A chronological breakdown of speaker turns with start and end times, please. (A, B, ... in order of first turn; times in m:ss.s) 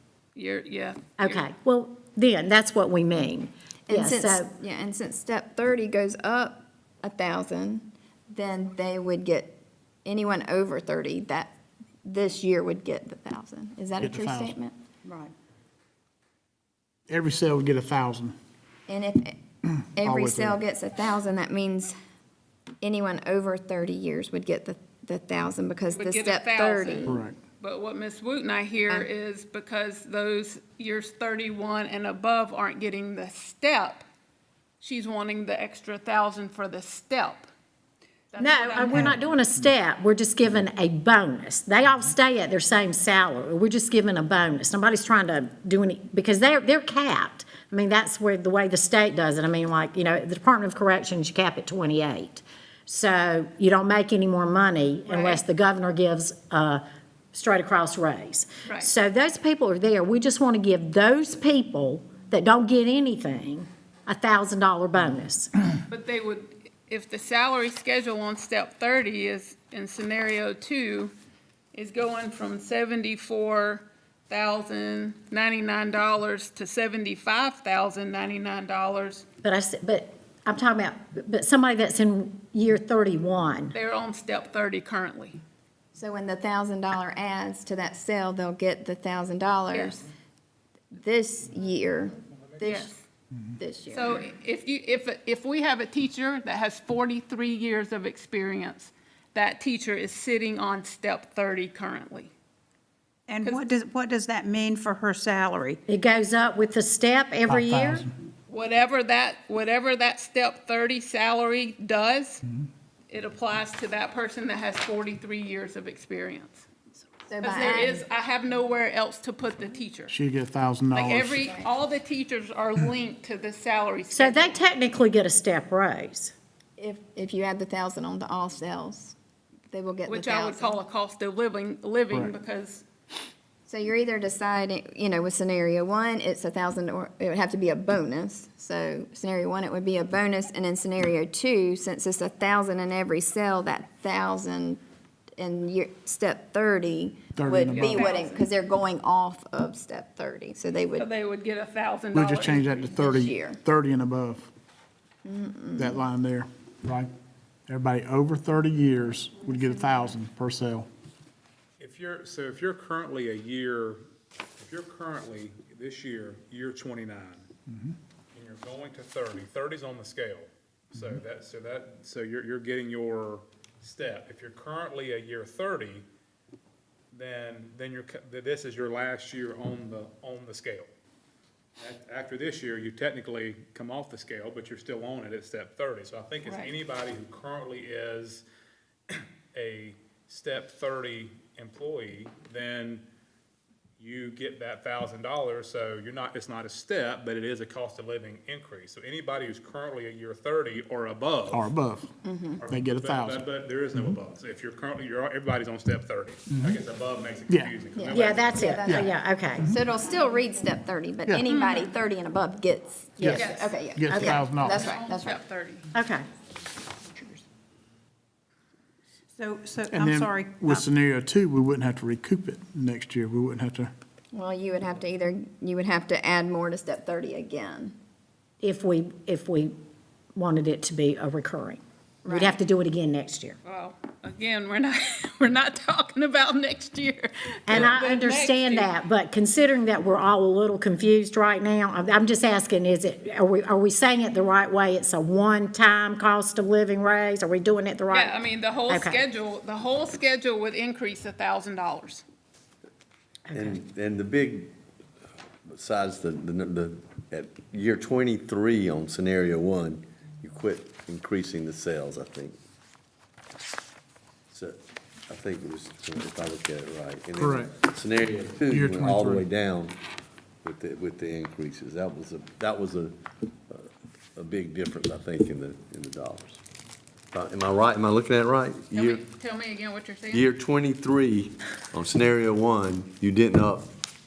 0:00.3-0:01.4 A
0:01.2-0:04.5 B
0:03.9-0:11.5 C
0:12.0-0:14.7 C
0:14.0-0:14.6 D
0:15.0-0:15.3 E
0:17.1-0:18.4 D
0:18.9-0:19.4 C
0:19.9-0:21.9 C
0:20.0-0:20.6 D
0:22.8-0:27.2 C
0:25.9-0:34.0 A
0:27.0-0:27.4 D
0:34.8-0:37.5 A
0:38.3-0:39.2 A
0:38.4-0:56.8 B
0:55.1-0:55.4 A
0:57.3-1:05.5 B
1:05.9-1:11.1 A
1:11.7-1:19.2 A
1:19.4-1:23.7 B
1:23.7-1:25.4 A
1:25.9-1:30.0 C
1:30.9-1:32.9 C
1:32.6-1:33.0 A
1:33.6-1:34.2 C
1:33.9-1:42.3 A
1:43.3-1:45.8 E
1:43.4-1:43.7 A
1:45.9-1:48.0 B
1:47.5-1:48.1 D
1:48.5-1:52.4 A
1:53.1-1:56.7 A
1:57.3-1:58.0 C
1:57.4-2:00.2 A
2:00.1-2:01.4 D
2:00.9-2:04.6 A
2:04.1-2:06.3 B
2:06.8-2:09.2 C
2:09.7-2:10.8 C
2:10.1-2:12.8 A
2:13.6-2:24.8 C
2:25.4-2:31.1 C
2:27.4-2:28.1 D
2:27.7-2:28.5 A
2:30.9-2:33.0 A
2:32.1-2:34.5 D
2:32.9-2:33.6 C
2:35.2-2:36.0 C
2:35.7-2:37.1 D
2:37.7-2:40.9 D
2:41.8-2:44.0 F
2:44.6-2:47.5 F
2:47.7-2:47.9 D
2:48.3-2:56.0 F
2:57.1-3:00.9 F
3:01.8-3:08.4 F
3:06.4-3:06.7 A
3:09.1-3:13.0 F
3:14.0-3:21.7 F
3:21.5-3:22.1 D
3:22.2-3:22.6 C
3:22.6-3:28.8 F
3:22.7-3:24.2 D
3:26.5-3:26.8 D
3:27.5-3:27.8 D
3:27.9-3:29.1 C
3:28.1-3:29.7 B
3:28.8-3:29.8 D
3:29.7-3:35.4 C
3:31.5-3:31.9 A
3:33.2-3:34.9 D
3:33.3-3:33.7 A
3:34.6-3:35.8 A
3:35.9-3:36.2 B
3:39.3-3:40.8 E
3:39.9-3:43.9 D
3:44.3-3:47.9 C
3:48.6-3:49.7 B
3:50.3-3:53.6 B
3:52.2-3:52.6 C
3:53.6-3:58.9 A
3:57.7-4:08.4 B
4:08.1-4:12.2 A
4:08.9-4:09.2 B
4:13.5-4:13.8 B
4:13.5-4:14.7 G
4:15.7-4:22.6 G
4:24.5-4:30.0 G
4:27.4-4:27.7 D
4:28.7-4:29.5 D
4:30.6-4:33.1 G
4:33.7-4:36.6 G
4:37.3-4:39.2 G
4:38.9-4:40.5 A
4:40.3-4:43.9 G